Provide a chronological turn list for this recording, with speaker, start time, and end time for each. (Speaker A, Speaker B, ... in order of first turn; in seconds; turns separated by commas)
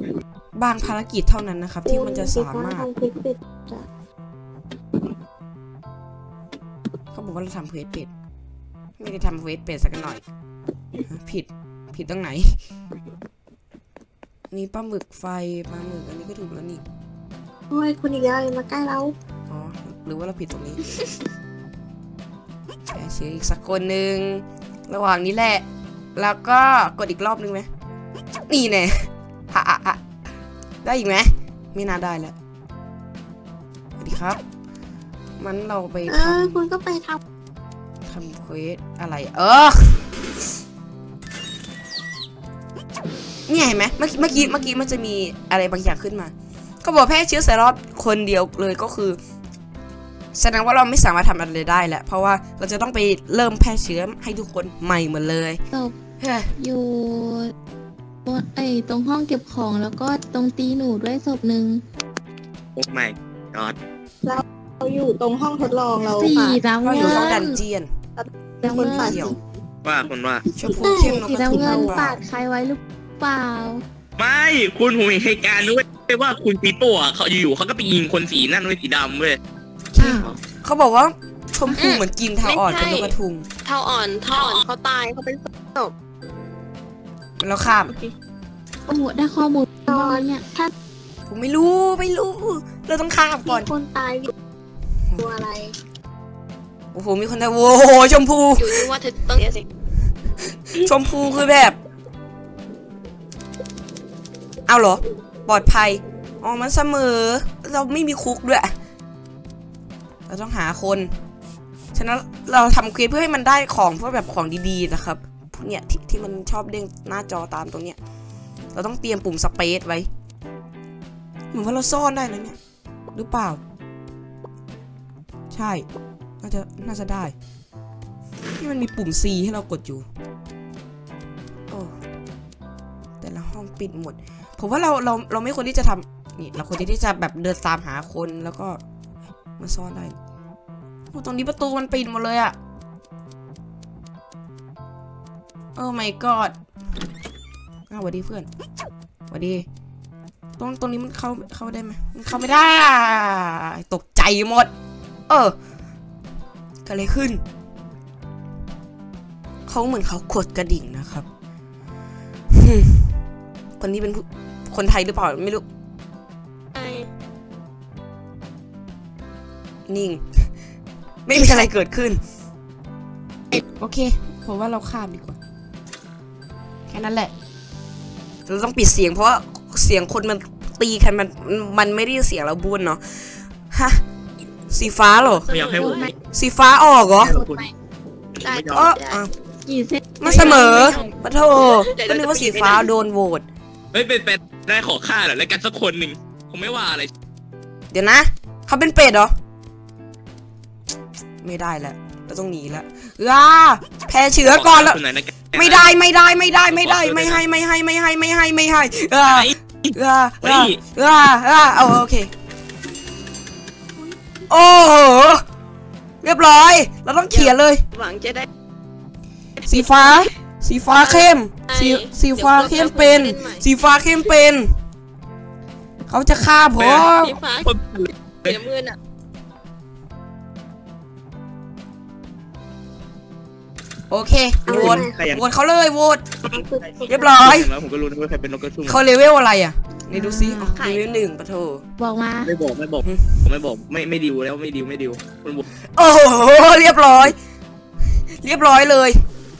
Speaker A: 0.5-2.9, Speaker B: 1.9-3.9, Speaker A: 7.1-8.1, Speaker A: 9.0-10.2, Speaker A: 11.1-12.6, Speaker A: 14.5-16.8, Speaker B: 17.7-19.1, Speaker A: 19.5-20.8, Speaker A: 22.9-25.6, Speaker A: 26.1-27.7, Speaker A: 28.5-30.0, Speaker A: 30.8-32.3, Speaker A: 34.0-34.4, Speaker A: 35.4-36.6, Speaker B: 36.1-37.2, Speaker A: 38.0-40.1, Speaker A: 43.5-49.2, Speaker A: 50.3-55.6, Speaker A: 56.2-56.5, Speaker C: 56.6-57.5, Speaker C: 58.2-61.8, Speaker D: 62.8-63.8, Speaker B: 64.2-67.4, Speaker C: 66.2-67.6, Speaker A: 66.8-67.9, Speaker B: 68.2-69.3, Speaker C: 68.6-69.3, Speaker A: 68.7-69.3, Speaker D: 69.8-70.4, Speaker B: 70.5-71.8, Speaker A: 70.6-72.2, Speaker C: 70.7-73.8, Speaker D: 74.2-79.4, Speaker A: 79.9-83.5, Speaker C: 80.0-80.3, Speaker D: 80.1-80.4, Speaker E: 81.8-85.4, Speaker A: 87.4-87.9, Speaker C: 88.9-90.5, Speaker B: 89.8-90.7, Speaker A: 91.3-93.7, Speaker B: 93.5-94.3, Speaker B: 95.2-95.8, Speaker A: 96.9-98.9, Speaker E: 98.6-99.7, Speaker A: 100.7-101.8, Speaker A: 104.7-108.7, Speaker A: 110.3-111.1, Speaker A: 111.9-118.0, Speaker A: 118.7-120.1, Speaker A: 121.5-122.6, Speaker A: 123.1-123.6, Speaker A: 125.5-125.8, Speaker A: 126.4-127.3, Speaker A: 128.6-130.1, Speaker A: 131.7-131.9, Speaker A: 133.2-138.8, Speaker A: 139.6-140.2, Speaker A: 141.1-142.5, Speaker A: 145.8-146.6, Speaker A: 147.9-148.5, Speaker A: 149.3-149.7, Speaker A: 150.6-154.7, Speaker A: 155.3-155.6, Speaker A: 156.8-157.4, Speaker A: 159.7-161.2, Speaker A: 162.5-163.1, Speaker A: 163.8-165.6, Speaker E: 166.7-167.1, Speaker A: 169.9-170.5, Speaker A: 171.2-172.2, Speaker A: 173.8-175.4, Speaker A: 176.9-177.3, Speaker A: 178.5-184.0, Speaker A: 184.7-185.5, Speaker E: 185.2-186.1, Speaker D: 185.5-186.1, Speaker C: 185.7-186.1, Speaker A: 186.3-187.4, Speaker D: 187.2-187.7, Speaker C: 187.3-187.7, Speaker D: 188.4-188.9, Speaker E: 188.4-189.2, Speaker A: 188.7-189.3, Speaker C: 189.6-191.1, Speaker A: 190.2-193.4, Speaker E: 190.2-191.1, Speaker E: 191.9-192.9, Speaker D: 193.9-197.1, Speaker A: 197.9-199.3, Speaker A: 201.4-205.0, Speaker D: 204.4-205.9, Speaker A: 205.5-212.3, Speaker D: 206.7-207.4, Speaker D: 209.3-210.8, Speaker A: 214.5-215.4, Speaker A: 216.2-217.8, Speaker E: 217.3-218.5, Speaker A: 219.7-224.7, Speaker E: 220.9-223.7, Speaker A: 226.1-227.4, Speaker D: 226.8-227.1, Speaker E: 227.1-227.7, Speaker D: 227.6-228.6, Speaker E: 228.4-229.0, Speaker A: 234.1-236.2, Speaker B: 234.7-235.2, Speaker D: 234.7-235.4, Speaker B: 236.5-237.4, Speaker A: 237.1-237.7, Speaker D: 237.4-239.0, Speaker A: 238.8-241.8, Speaker C: 240.1-240.8, Speaker E: 240.8-241.2, Speaker C: 242.0-242.5, Speaker D: 242.4-245.7, Speaker A: 243.0-243.4, Speaker A: 245.9-247.3, Speaker A: 248.1-249.2